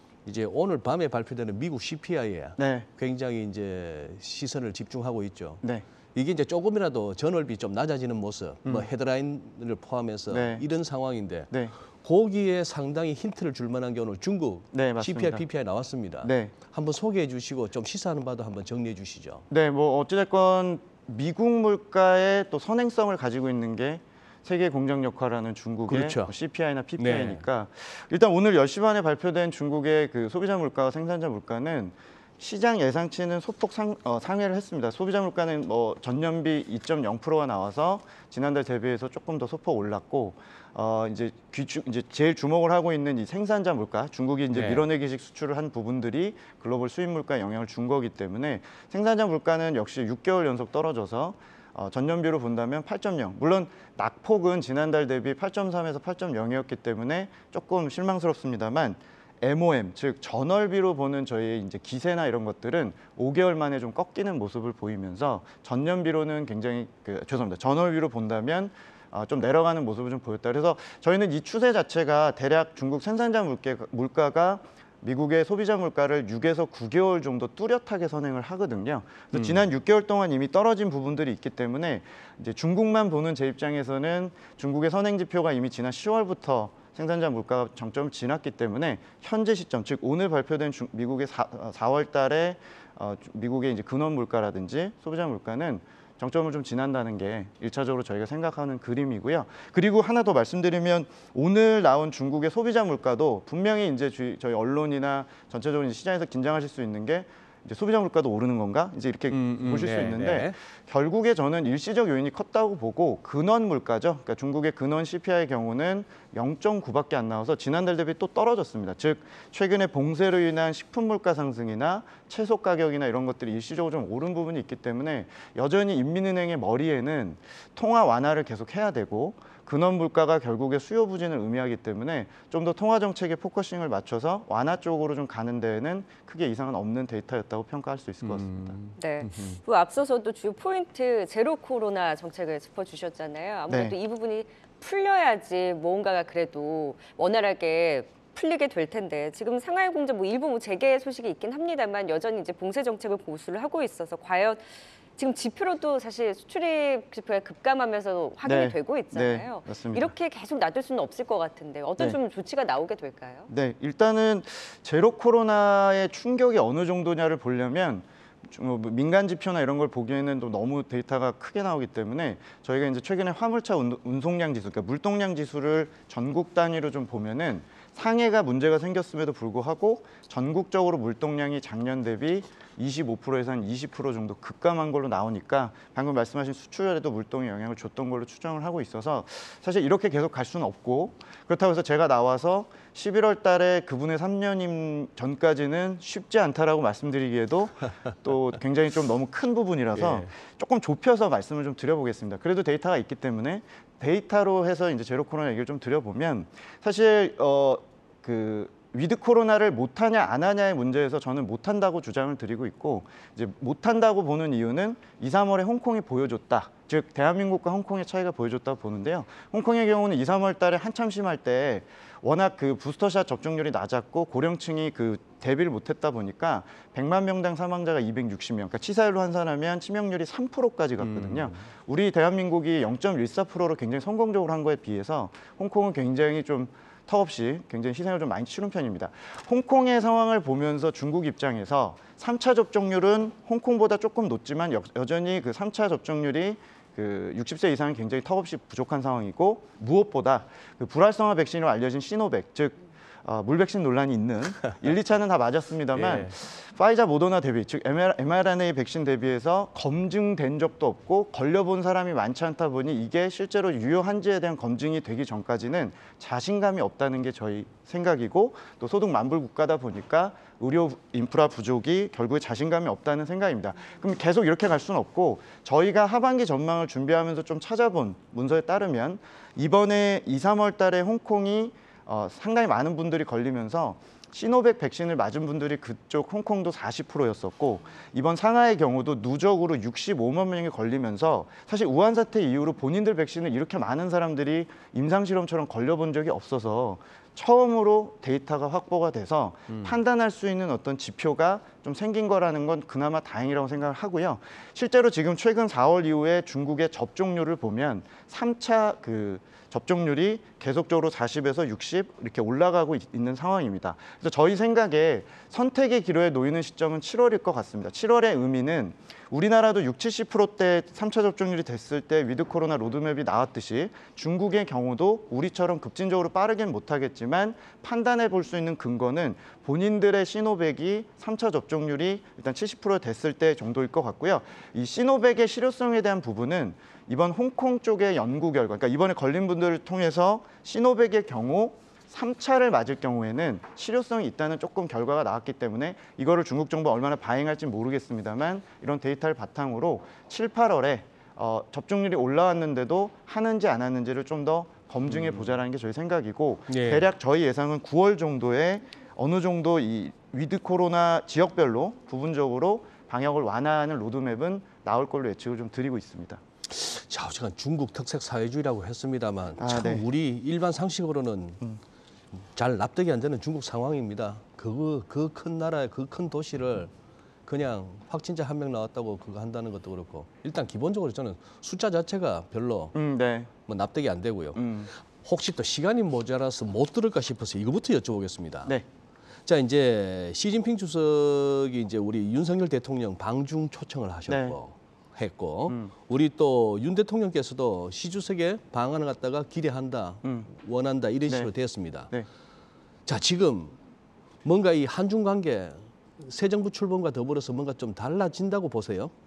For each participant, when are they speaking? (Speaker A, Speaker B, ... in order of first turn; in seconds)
Speaker A: 0.3-5.6, 6.2-19.4, 25.9-26.3, 27.0-27.4, 44.5-44.9, 79.3-79.6, 109.3-110.5, 138.2-139.6, 200.0-200.3, 231.0-231.6, 255.9-256.3, 299.7-300.0, 355.1-355.5, 356.7-357.1, 366.7-371.6, 372.5-376.9, 377.5-382.9, 383.6-388.8, 389.5-402.1, 403.1-403.8, 404.4-409.1
Speaker B: 2.6-2.9, 10.3-10.6, 14.7-15.5, 16.2-16.6, 19.5-138.8, 143.7-144.0, 158.4-160.1, 163.5-366.4, 369.6-370.1, 382.9-383.5, 384.6-384.9, 394.3-394.6, 400.2-400.5, 401.3-401.5
Speaker C: 139.0-163.5